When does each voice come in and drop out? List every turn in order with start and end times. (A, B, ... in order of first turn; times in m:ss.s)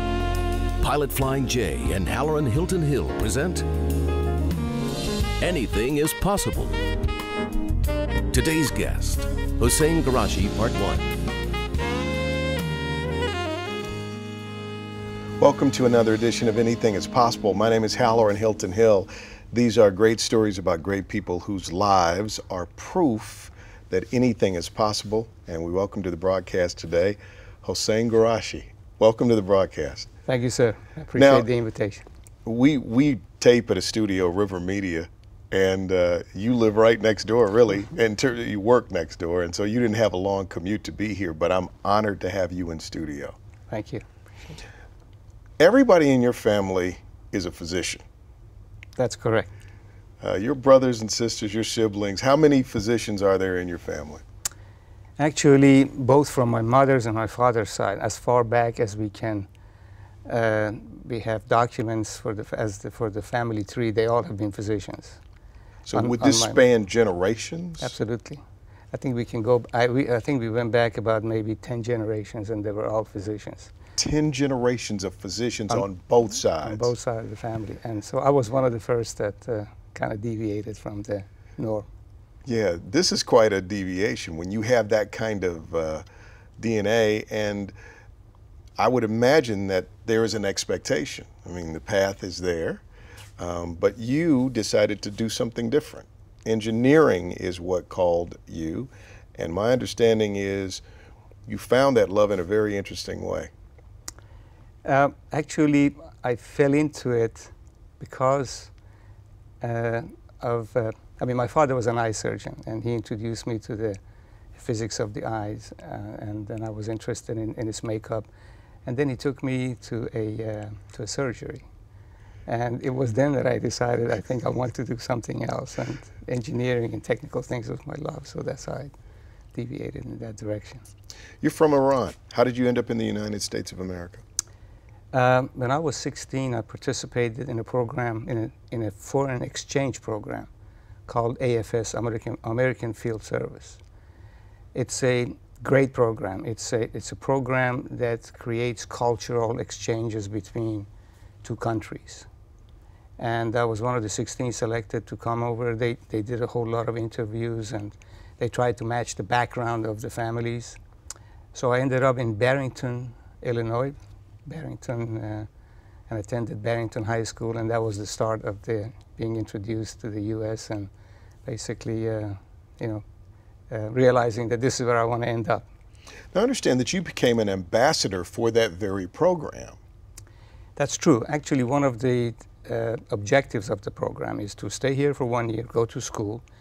0:00.8-0:03.7 A
0:05.4-0:06.8 A
0:08.3-0:11.1 A
0:15.4-0:30.1 B
0:30.3-0:32.0 C
0:31.2-0:31.5 B
0:32.4-0:43.4 B
0:43.7-0:44.0 C
0:45.6-0:48.0 B
0:49.0-0:49.5 C
0:50.2-0:54.2 B
0:55.2-0:59.5 C
1:00.2-1:05.2 C
1:05.8-1:08.0 B
1:05.9-1:06.6 C
1:07.8-1:13.7 C
1:14.0-1:16.9 B
1:16.6-1:21.9 C
1:22.4-1:26.0 B
1:26.6-1:27.7 B
1:28.8-1:32.8 B
1:33.4-1:40.8 B
1:41.4-1:43.5 B
1:44.8-1:48.7 C
1:49.6-1:54.0 C
1:54.5-1:58.3 C
1:58.8-2:01.6 C
2:02.5-2:08.9 C
2:09.5-2:10.8 C
2:11.4-2:14.2 B
2:15.1-2:20.5 C
2:21.1-2:23.8 C
2:24.7-2:30.9 C
2:31.4-2:32.3 C
2:33.2-2:40.8 C
2:41.5-2:45.5 C
2:46.1-2:50.9 C
2:51.4-2:53.0 C
2:53.7-2:55.6 C
2:56.3-2:59.8 B
3:00.8-3:06.4 C